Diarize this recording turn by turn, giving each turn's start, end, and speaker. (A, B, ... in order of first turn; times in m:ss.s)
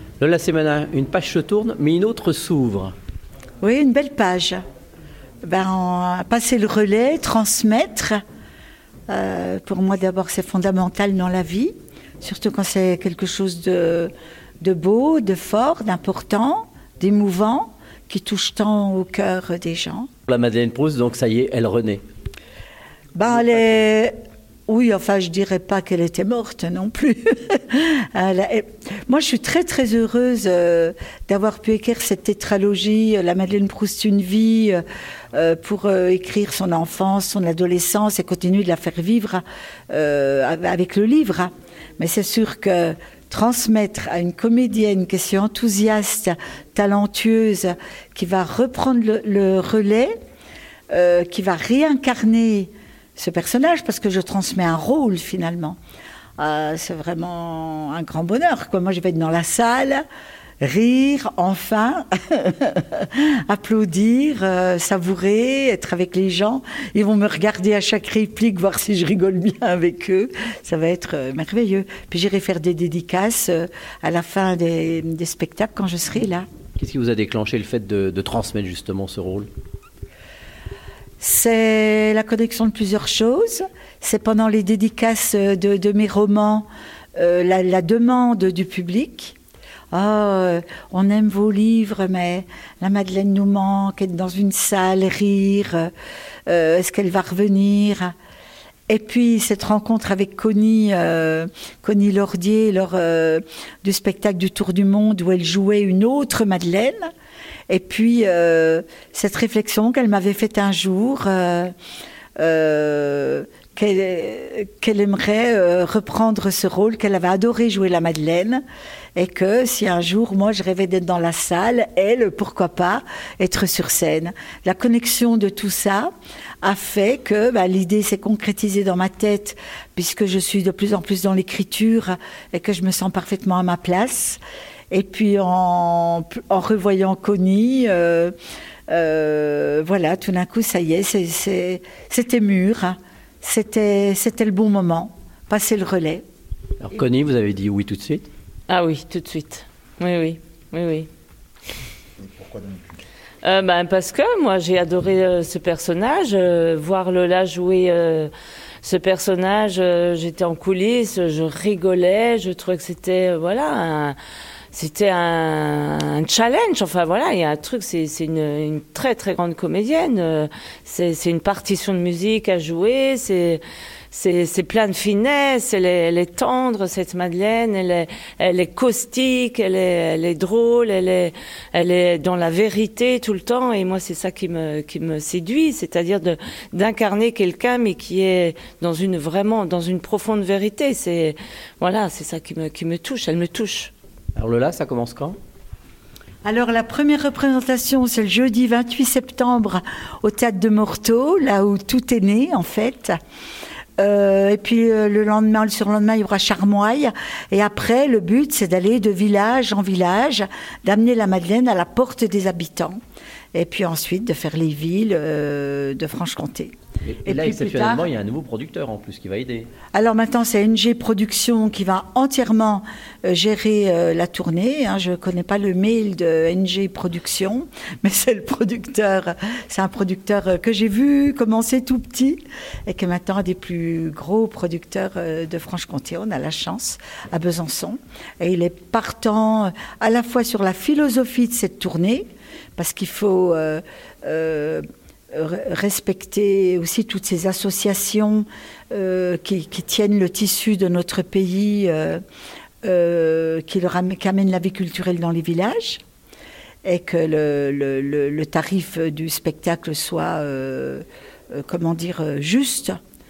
0:00.2-0:03.0 A
0:03.6-0:04.6 B
0:05.4-0:08.2 B
0:09.1-0:14.1 B
0:14.6-0:20.1 B
0:20.3-0:22.0 A
0:23.2-0:24.1 B
0:24.7-0:34.8 B
0:35.3-0:50.2 B
0:50.9-0:55.8 B
0:56.4-1:00.0 B
1:00.6-1:16.5 B
1:16.8-1:19.5 A
1:21.2-1:29.4 B
1:29.9-1:35.9 B
1:36.5-1:38.1 B
1:38.9-1:47.1 B
1:47.7-1:51.7 B
1:52.4-1:58.6 B
1:59.2-2:18.3 B
2:18.9-2:26.2 B
2:26.8-2:28.3 A
2:28.7-2:31.1 C
2:33.4-2:38.3 C
2:38.8-2:44.2 C
2:44.7-3:13.9 C
3:14.4-3:15.4 A
3:16.4-3:23.2 B
3:24.0-3:33.0 B
3:33.5-3:36.7 B
3:37.1-3:39.7 A
3:37.2-3:38.1 B
3:39.9-4:12.2 B
4:12.8-4:16.0 B
4:16.8-4:23.0 B